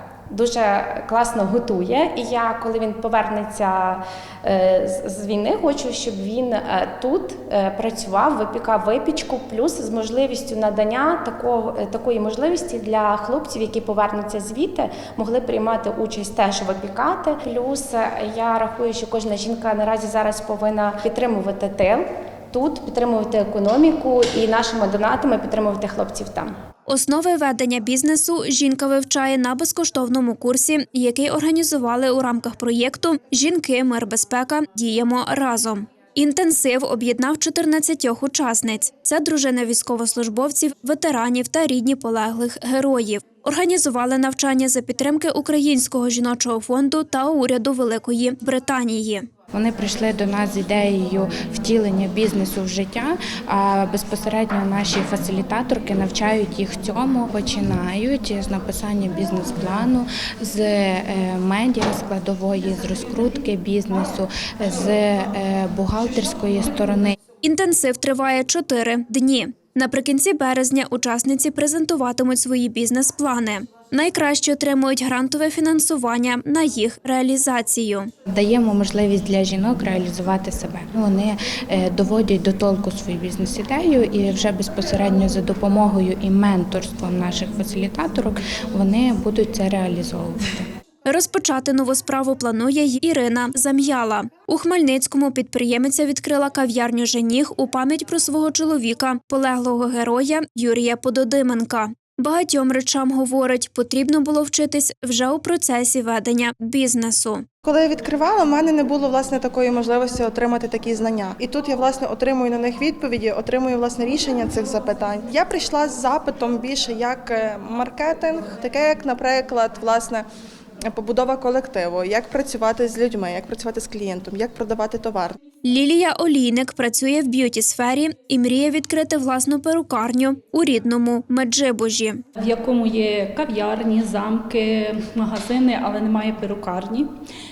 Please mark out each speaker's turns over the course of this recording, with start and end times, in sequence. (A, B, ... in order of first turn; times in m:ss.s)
0:00.3-0:26.5 A
0:26.9-0:49.3 B
0:49.5-1:07.1 C
1:07.4-1:18.1 B
1:18.3-1:30.7 C
1:31.0-1:47.4 B
1:47.6-2:00.2 D
2:00.9-2:05.4 D
2:05.6-2:12.2 B
2:12.4-2:17.1 E